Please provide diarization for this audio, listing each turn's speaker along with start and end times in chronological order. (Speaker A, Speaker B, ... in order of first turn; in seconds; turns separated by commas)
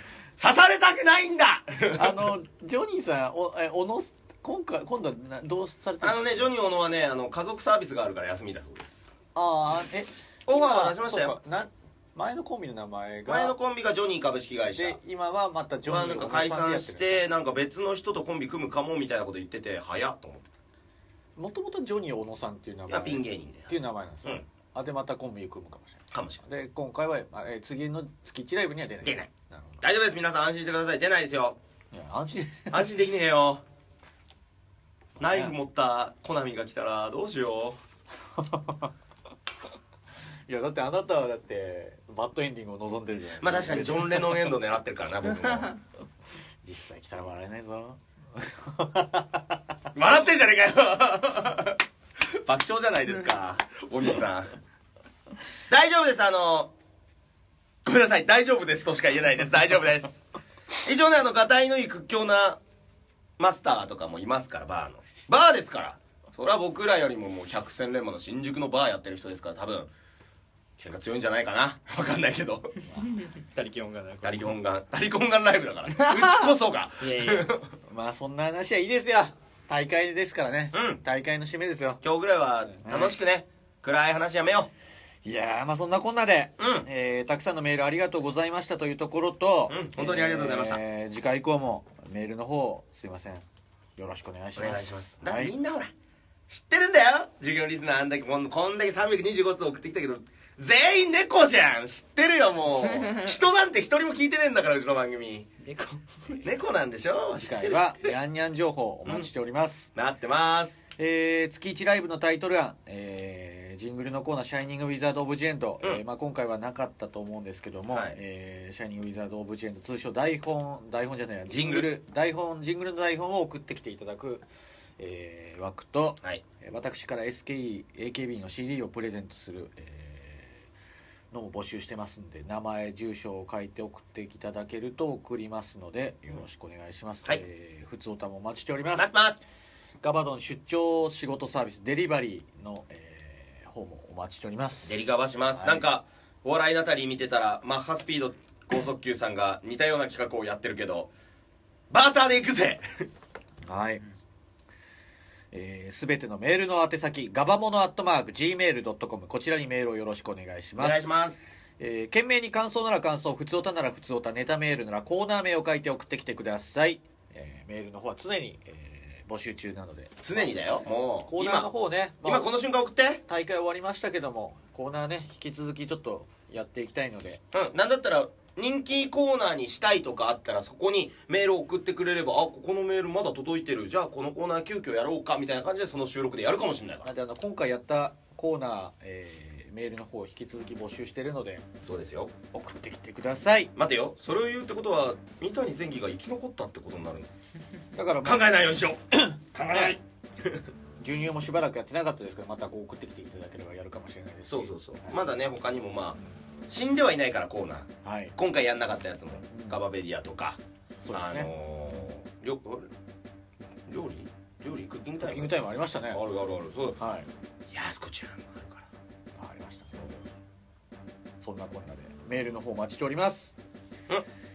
Speaker A: 0.4-2.2, Speaker B: 1.9-6.5, Speaker A: 6.0-9.1, Speaker B: 9.3-13.6, Speaker A: 10.5-11.4, Speaker A: 13.3-15.0, Speaker B: 14.8-17.2, Speaker A: 15.9-20.5, Speaker B: 21.4-29.9, Speaker A: 22.9-23.7, Speaker A: 26.1-26.4, Speaker A: 29.0-29.3, Speaker A: 29.8-31.6, Speaker B: 31.9-32.9, Speaker A: 32.7-33.6, Speaker A: 35.2-37.8, Speaker B: 35.2-35.5, Speaker B: 38.4-38.9, Speaker B: 40.5-44.5, Speaker A: 43.4-45.8, Speaker B: 46.6-49.6, Speaker A: 49.9-54.5, Speaker A: 55.7-56.7, Speaker A: 57.8-60.2, Speaker A: 60.8-62.6, Speaker A: 63.4-69.9, Speaker A: 70.8-72.8, Speaker C: 73.2-74.5, Speaker A: 74.2-77.7, Speaker C: 76.0-76.3, Speaker C: 77.0-77.5, Speaker B: 77.9-82.0, Speaker A: 80.7-81.0, Speaker A: 82.0-84.7, Speaker B: 82.8-83.2, Speaker B: 85.2-93.5, Speaker A: 86.6-86.9, Speaker A: 89.7-90.8, Speaker B: 94.0-95.5, Speaker A: 94.6-95.9, Speaker A: 96.5-105.5, Speaker C: 105.6-106.4, Speaker A: 106.4-108.2, Speaker B: 107.4-109.9, Speaker A: 110.0-110.8, Speaker B: 111.0-124.5, Speaker A: 117.9-118.2, Speaker A: 121.5-121.9, Speaker B: 125.0-130.7, Speaker B: 131.3-139.1, Speaker A: 139.0-139.4, Speaker B: 140.0-145.1, Speaker A: 144.8-151.1, Speaker B: 145.6-145.9, Speaker A: 151.9-152.8, Speaker B: 153.7-154.0, Speaker B: 155.5-161.1, Speaker A: 160.8-161.4, Speaker B: 161.8-170.5, Speaker A: 170.2-171.7, Speaker B: 171.3-172.5, Speaker A: 172.2-173.2, Speaker B: 173.2-177.4, Speaker A: 177.5-187.1, Speaker B: 187.1-191.7, Speaker A: 191.8-192.3, Speaker B: 192.5-193.7, Speaker A: 193.8-197.3, Speaker B: 197.9-200.0, Speaker A: 198.2-200.6, Speaker B: 201.0-205.3, Speaker A: 204.5-210.6, Speaker B: 208.0-208.4, Speaker B: 209.5-209.8, Speaker B: 211.0-211.5, Speaker A: 211.1-212.9, Speaker A: 213.9-215.6, Speaker B: 215.2-216.2, Speaker A: 216.1-217.0, Speaker B: 217.0-217.3, Speaker A: 217.7-218.9, Speaker B: 219.4-220.2, Speaker B: 221.4-223.6